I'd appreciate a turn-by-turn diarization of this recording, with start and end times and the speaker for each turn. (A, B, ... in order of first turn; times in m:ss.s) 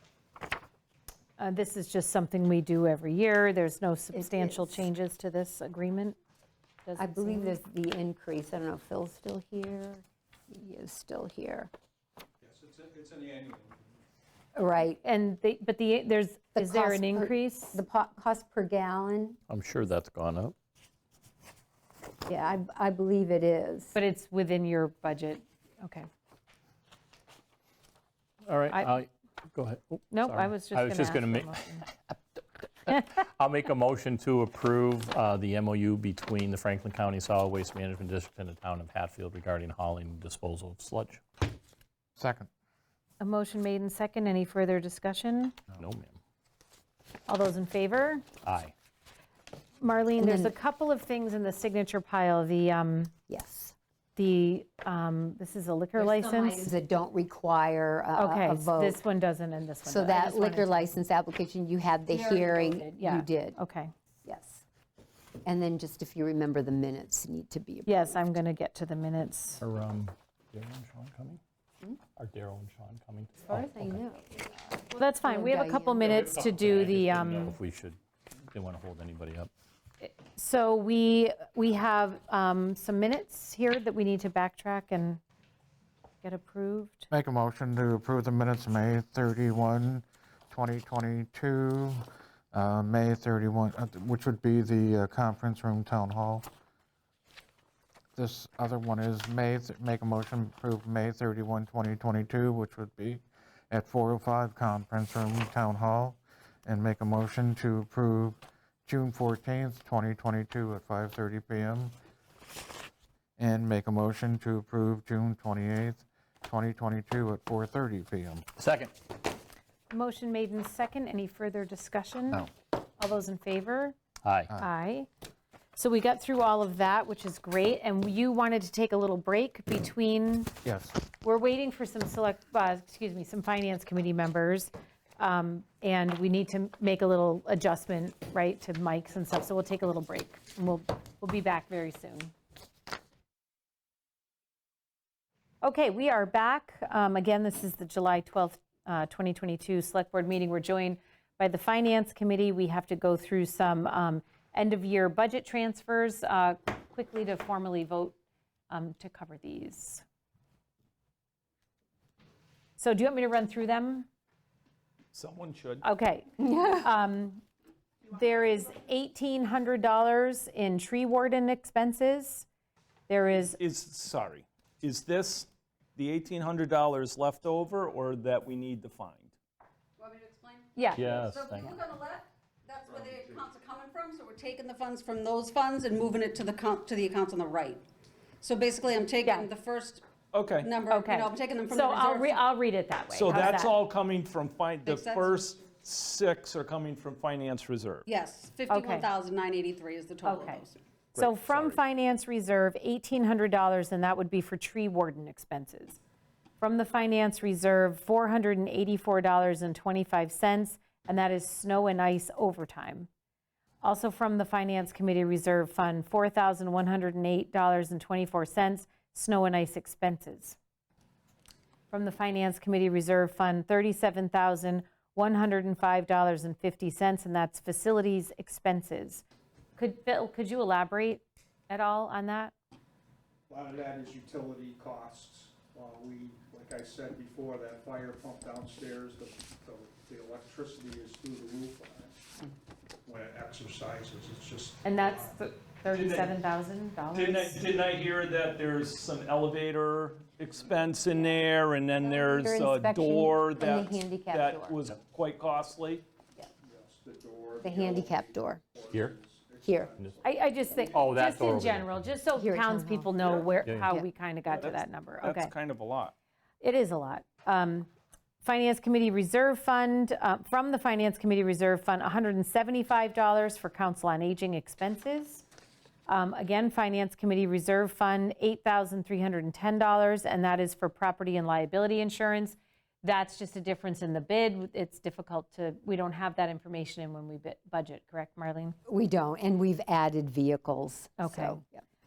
0:01.4-0:06.2 A
0:04.1-0:04.8 B
0:06.8-0:07.5 A
0:07.0-0:11.7 B
0:12.4-0:14.0 C
0:14.5-0:15.0 B
0:15.0-0:17.8 A
0:16.6-0:19.4 B
0:19.5-0:20.5 D
0:22.3-0:23.9 B
0:23.9-0:26.0 A
0:28.4-0:41.2 D
0:30.1-0:31.8 A
0:42.2-0:42.5 E
0:43.2-0:45.6 A
0:45.7-0:46.2 D
0:47.3-0:48.2 A
0:48.4-0:48.7 D
0:49.8-0:53.1 A
0:50.2-0:50.5 B
0:53.3-0:53.7 B
0:54.2-0:56.7 A
0:56.0-0:59.0 B
0:58.1-1:01.0 A
0:59.9-1:03.6 B
1:02.1-1:03.9 A
1:04.2-1:04.6 B
1:05.4-1:08.2 B
1:07.8-1:09.6 A
1:09.6-1:11.4 D
1:12.2-1:14.0 D
1:13.5-1:16.3 B
1:14.9-1:17.5 A
1:16.0-1:19.5 D
1:20.0-1:25.2 A
1:26.2-1:27.1 A
1:27.1-1:36.4 E
1:38.2-1:51.9 E
1:53.4-1:58.4 E
1:58.6-1:58.9 D
1:59.9-2:03.9 A
2:04.2-2:04.5 D
2:04.6-2:05.1 A
2:05.8-2:10.5 A
2:10.6-2:11.0 E
2:11.2-2:22.3 A
2:25.6-2:38.1 A
2:38.7-2:40.0 A
2:42.8-2:44.1 A
2:45.1-2:45.8 F
2:45.8-2:47.4 A
2:46.4-2:46.9 B
2:48.1-2:52.5 A
2:53.1-2:53.6 A
2:53.3-2:59.3 F
3:00.0-3:07.8 G
3:00.8-3:01.1 A
3:00.9-3:01.8 D
3:02.9-3:03.4 C
3:08.4-3:10.0 G
3:09.2-3:09.5 A
3:10.3-3:10.7 F
3:10.6-3:12.4 G
3:10.9-3:13.8 A
3:13.1-3:18.1 F
3:14.8-3:15.5 G
3:18.0-3:20.8 G
3:18.7-3:19.0 A
3:20.2-3:20.6 A
3:21.2-3:26.0 A
3:21.2-3:21.8 F
3:26.6-3:33.1 A
3:33.8-3:40.6 A
3:41.9-3:49.2 A
3:49.8-3:52.5 A
3:53.5-4:02.2 C
4:03.0-4:05.4 C
4:04.8-4:07.6 A
4:05.9-4:06.3 F
4:07.1-4:16.0 F
4:10.6-4:11.0 C
4:12.0-4:14.8 B
4:16.6-4:20.7 C
4:17.6-4:18.6 B
4:19.6-4:19.9 B
4:20.2-4:25.5 A
4:20.9-4:22.1 D
4:22.4-4:23.1 B
4:23.2-4:23.5 F
4:23.6-4:23.9 D
4:24.4-4:26.1 F
4:26.6-4:27.9 A
4:28.4-4:35.4 A
4:36.1-4:48.8 A
4:48.9-4:51.8 B
4:51.2-4:51.6 A